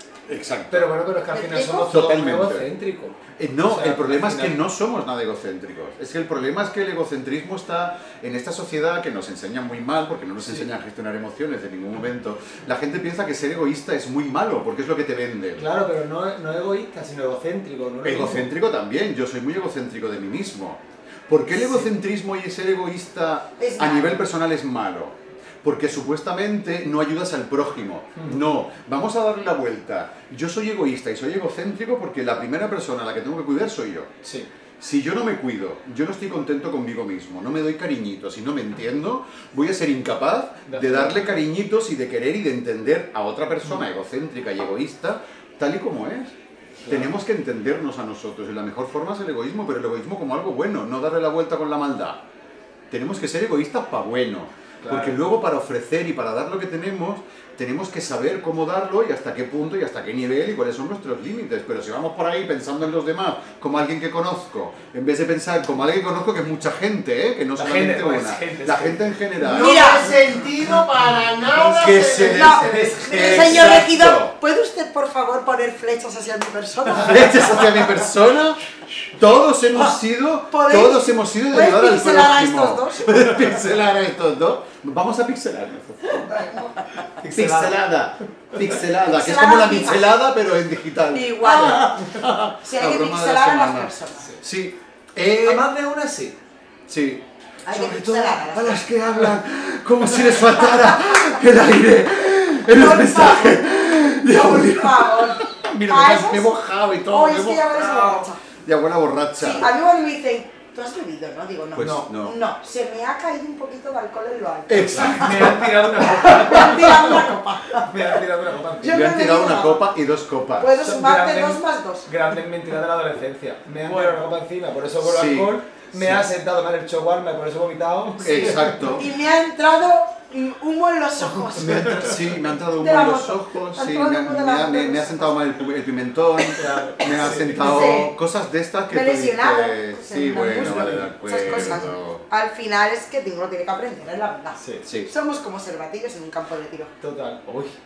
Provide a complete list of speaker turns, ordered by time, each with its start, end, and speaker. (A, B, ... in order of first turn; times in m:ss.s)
0:00.3-0:00.9 A
0:00.7-0:04.6 B
0:01.3-0:01.9 C
0:01.8-0:02.7 A
0:03.4-0:15.6 A
0:10.4-0:10.7 B
0:15.6-0:18.5 B
0:18.0-0:34.1 A
0:21.5-0:21.9 B
0:23.6-0:24.2 C
0:28.2-0:28.5 B
0:34.2-0:34.5 B
0:34.8-0:46.3 A
0:40.7-0:41.4 B
0:46.8-0:47.1 B
0:46.9-0:52.2 A
0:52.9-1:09.8 A
0:54.8-0:55.2 B
1:07.6-1:09.1 B
1:09.4-1:13.0 D
1:09.5-1:10.2 C
1:11.5-1:14.3 A
1:12.2-1:17.9 C
1:12.5-1:13.8 B
1:17.0-1:18.6 A
1:19.1-1:26.6 A
1:20.5-1:23.3 C
1:26.3-1:26.7 C
1:27.2-1:27.8 B
1:27.2-1:35.6 A
1:28.9-1:30.1 C
1:31.1-1:34.3 C
1:35.4-1:36.4 B
1:36.9-1:49.7 A
1:37.6-1:38.9 C
1:40.6-1:41.4 C
1:42.7-1:46.5 C
1:47.0-1:48.4 C
1:48.0-1:48.2 B
1:49.4-1:58.0 C
1:51.7-1:52.4 A
1:51.8-1:52.1 B
1:54.7-1:56.0 A
1:54.8-1:59.2 B
1:58.8-1:59.9 C
1:58.8-2:00.7 A
2:00.6-2:02.1 C
2:00.8-2:09.0 B
2:05.0-2:06.2 A
2:08.2-2:09.1 A
2:08.2-2:12.1 C
2:11.4-2:12.0 B
2:11.6-2:22.2 A
2:12.8-2:15.4 C
2:16.5-2:18.0 B
2:17.0-2:18.1 C
2:18.9-2:26.9 C
2:20.5-2:21.9 B
2:24.6-2:24.8 B
2:24.8-2:25.1 A
2:27.0-2:27.8 B